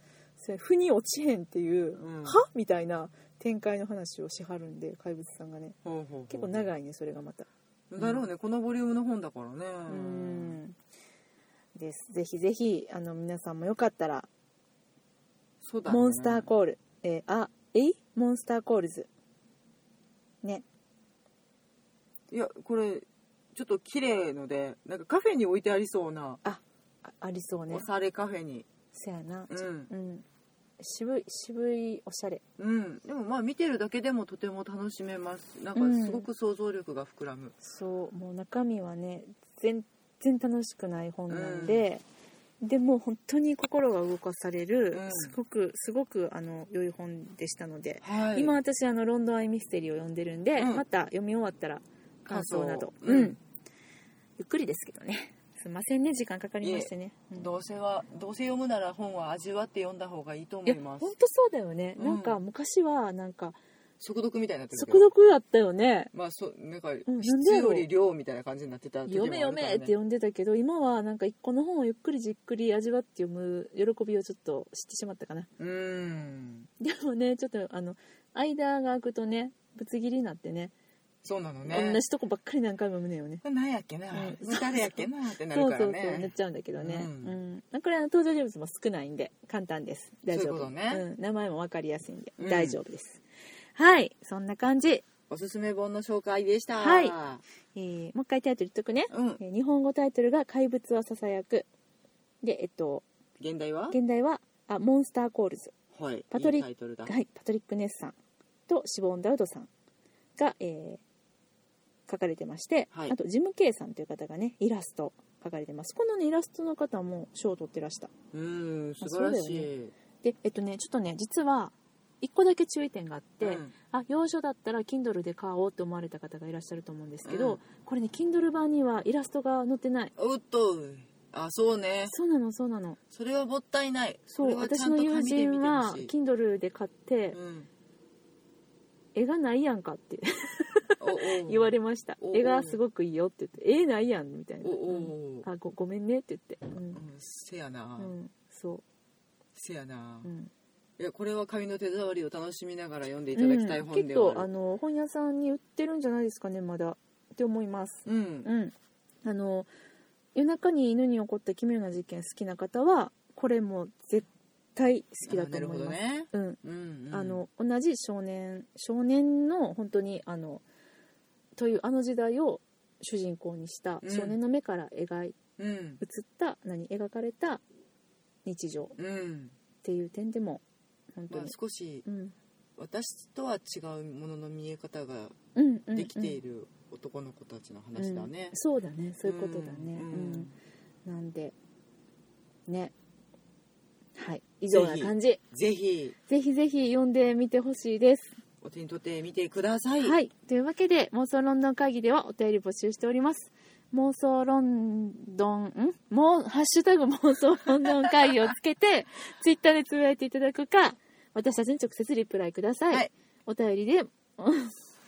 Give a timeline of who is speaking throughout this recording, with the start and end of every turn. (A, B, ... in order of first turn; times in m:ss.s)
0:00.4-0:05.8 A
0:02.0-0:02.4 B
0:05.8-0:06.7 B
0:06.3-0:08.3 A
0:07.9-0:10.6 B
0:09.9-0:10.8 A
0:11.8-0:14.3 A
0:15.6-0:16.5 B
0:15.9-0:19.1 A
0:22.3-0:26.4 B
0:26.4-0:27.9 A
0:27.7-0:28.7 B
0:28.9-0:30.2 A
0:29.5-0:29.9 B
0:30.8-0:32.4 A
0:32.6-0:37.6 B
0:35.8-0:36.3 A
0:37.6-0:42.0 A
0:41.3-0:41.9 B
0:42.6-0:53.4 A
0:44.9-0:45.4 B
0:48.0-0:48.6 B
0:50.6-0:50.8 B
0:52.3-0:53.4 B
0:54.4-0:57.5 A
0:56.6-1:01.1 B
1:00.6-1:03.6 A
1:02.0-1:02.4 B
1:04.0-1:05.1 B
1:04.7-1:06.1 A
1:06.1-1:09.9 B
1:07.1-1:07.9 A
1:09.1-1:15.5 A
1:15.6-1:16.7 B
1:16.8-1:20.7 A
1:21.2-1:22.0 B
1:21.6-1:23.4 A
1:23.4-1:27.4 B
1:24.1-1:33.2 A
1:30.3-1:31.0 B
1:32.4-1:32.8 B
1:33.8-1:35.0 A
1:35.3-1:37.4 B
1:36.8-1:37.1 A
1:37.8-1:41.7 A
1:39.1-1:39.4 B
1:42.4-1:43.0 A
1:43.4-1:44.0 B
1:43.9-1:45.7 A
1:45.9-1:47.1 B
1:46.3-1:48.2 A
1:48.7-1:49.7 A
1:50.4-1:51.0 A
1:52.1-1:58.1 A
1:58.3-1:59.9 B
1:59.0-1:59.7 A
2:00.2-2:10.1 A
2:03.4-2:03.7 B
2:07.2-2:07.6 B
2:10.2-2:12.1 B
2:12.1-2:13.0 A
2:13.1-2:16.1 B
2:14.4-2:17.4 A
2:17.3-2:17.7 B
2:19.1-2:27.0 A
2:21.0-2:22.8 B
2:24.6-2:25.5 B
2:26.9-2:28.1 B
2:28.0-2:28.8 A
2:29.6-2:30.3 B
2:30.2-2:30.5 A
2:31.0-2:34.5 B
2:33.4-2:39.7 A
2:38.0-2:38.5 B
2:40.4-2:50.6 A
2:45.3-2:47.4 B
2:51.6-2:55.4 A
2:54.0-2:54.4 B
2:55.6-2:56.0 B
2:56.0-2:57.6 A
2:58.5-2:58.9 A
2:59.0-2:59.6 B
2:59.8-3:00.6 A
3:01.1-3:01.5 A
3:01.3-3:02.0 B
3:02.0-3:02.3 A
3:02.8-3:05.4 B
3:05.6-3:06.4 A
3:05.9-3:08.6 B
3:08.0-3:10.5 A
3:09.2-3:10.5 B
3:11.0-3:11.5 A
3:12.7-3:12.9 A
3:14.2-3:15.4 A
3:14.7-3:16.2 B
3:16.3-3:18.4 A
3:18.6-3:20.2 B
3:20.0-3:34.7 A